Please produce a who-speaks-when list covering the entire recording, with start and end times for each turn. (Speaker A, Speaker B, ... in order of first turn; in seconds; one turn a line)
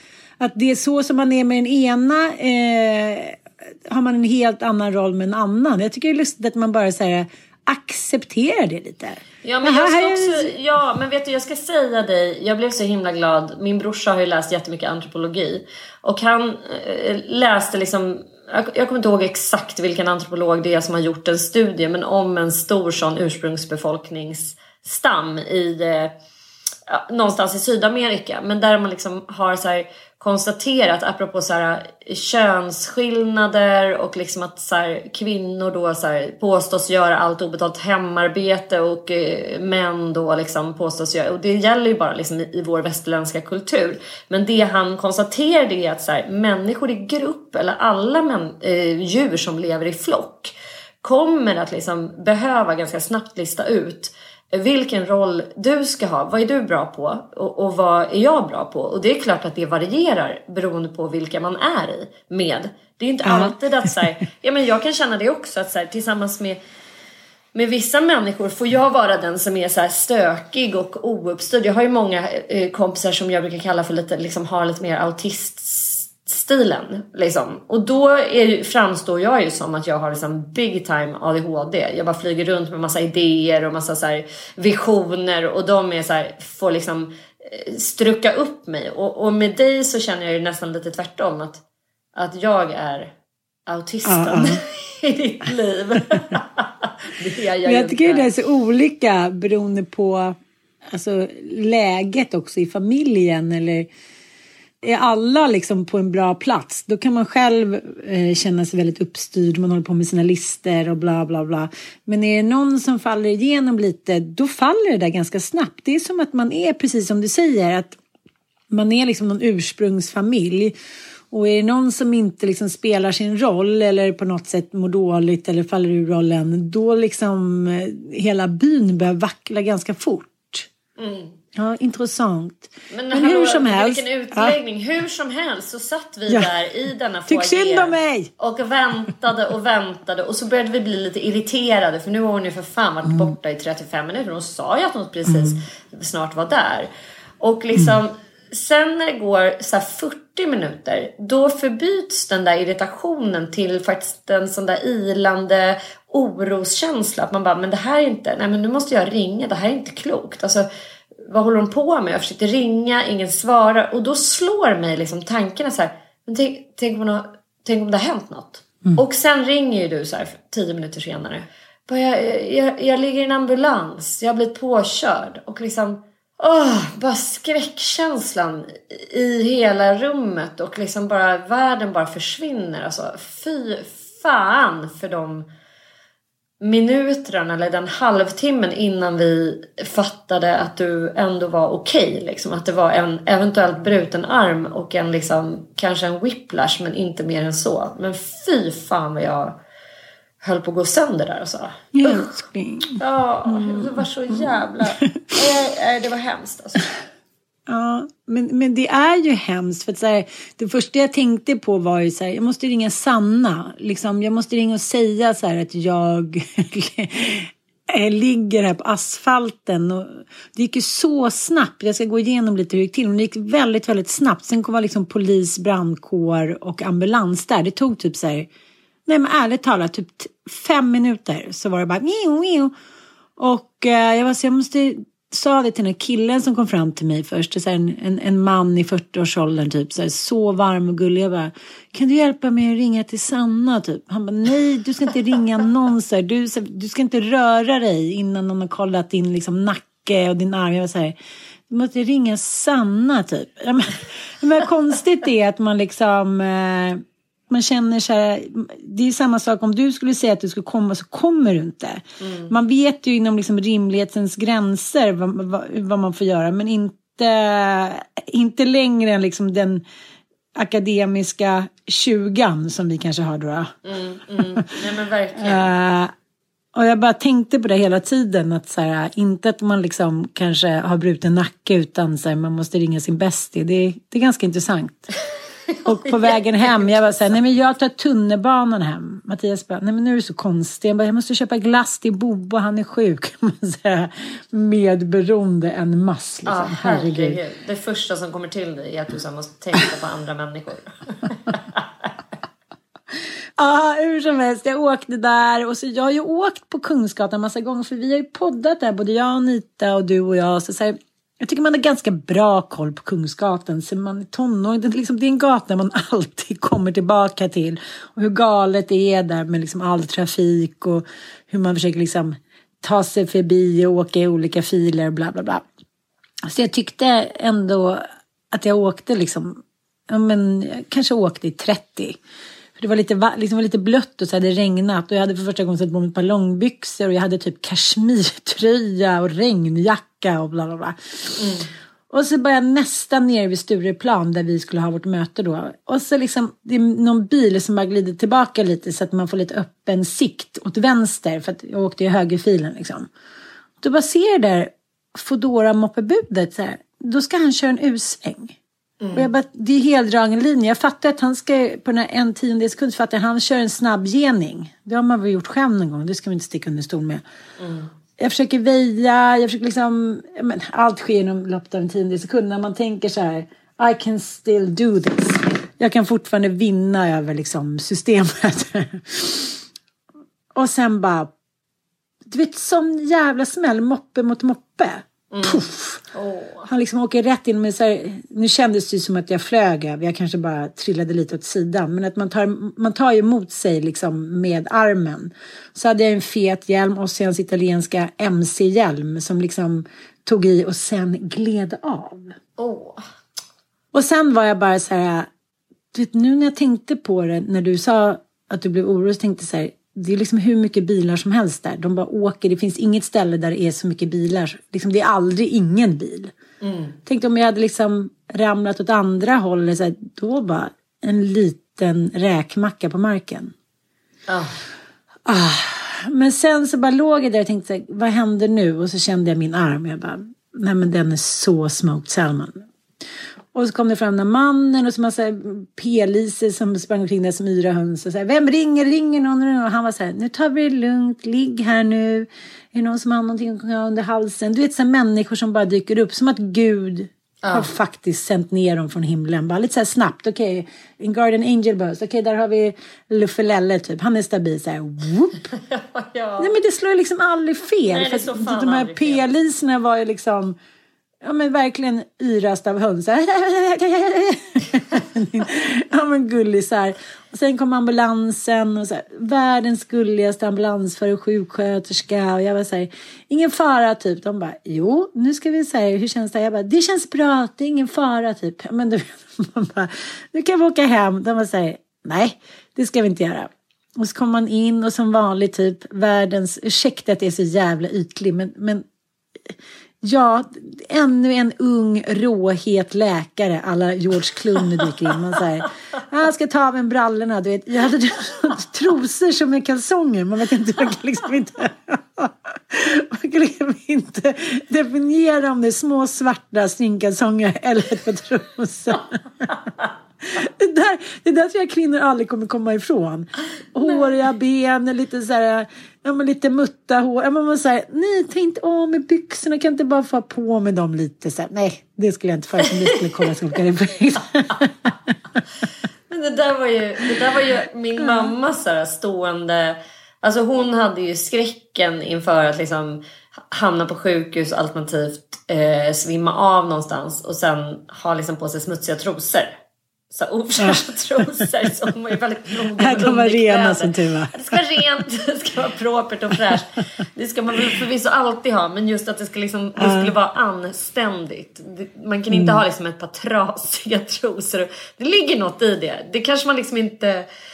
Speaker A: 0.4-10.5
Speaker B: 9.4-26.1
Speaker B: 26.9-66.6
Speaker A: 63.2-64.0
Speaker B: 67.5-91.6
Speaker B: 92.1-93.1
Speaker B: 93.7-98.3
Speaker A: 94.0-94.6
Speaker A: 97.6-100.4
Speaker A: 100.9-103.9
Speaker A: 104.8-118.0
Speaker A: 118.7-120.7
Speaker A: 121.3-130.7
Speaker B: 131.0-131.3
Speaker A: 131.5-134.6
Speaker B: 132.9-146.9
Speaker A: 137.3-138.3
Speaker A: 143.1-143.3
Speaker A: 145.3-145.6
Speaker B: 147.4-160.7
Speaker B: 161.2-185.5
Speaker B: 186.6-199.6
Speaker B: 200.4-202.3
Speaker A: 201.9-204.9
Speaker B: 203.0-206.9
Speaker A: 207.7-228.5
Speaker A: 229.1-232.7
Speaker A: 233.4-251.2
Speaker A: 251.7-269.8
Speaker B: 262.2-262.5
Speaker A: 270.6-273.7
Speaker B: 273.8-275.7
Speaker A: 275.4-276.1
Speaker A: 276.7-285.1
Speaker A: 285.8-297.4
Speaker B: 286.1-287.3
Speaker B: 296.4-302.1
Speaker A: 303.6-325.6
Speaker A: 326.4-332.2
Speaker A: 332.8-341.4
Speaker B: 341.4-341.7
Speaker A: 342.1-353.1
Speaker A: 353.8-358.6
Speaker B: 359.0-359.3
Speaker A: 359.1-367.2
Speaker B: 367.6-367.9
Speaker A: 368.2-379.6
Speaker A: 380.5-381.3
Speaker A: 382.2-386.0
Speaker B: 385.3-386.7
Speaker A: 386.7-402.3
Speaker B: 402.6-403.0
Speaker A: 403.9-405.3
Speaker A: 405.9-416.3
Speaker B: 416.6-416.9
Speaker A: 417.1-423.5
Speaker B: 424.3-424.5
Speaker A: 425.2-432.6
Speaker A: 433.5-455.5
Speaker B: 447.4-447.7
Speaker B: 455.7-456.5
Speaker A: 456.4-460.6
Speaker B: 457.9-459.2
Speaker A: 461.2-488.8
Speaker A: 490.0-509.5
Speaker A: 510.3-525.1
Speaker B: 513.8-514.1
Speaker B: 522.6-523.3
Speaker B: 526.1-539.5
Speaker A: 528.0-528.3
Speaker B: 540.1-557.3
Speaker A: 540.6-541.4
Speaker A: 542.8-544.6
Speaker A: 549.8-550.1
Speaker A: 552.3-552.6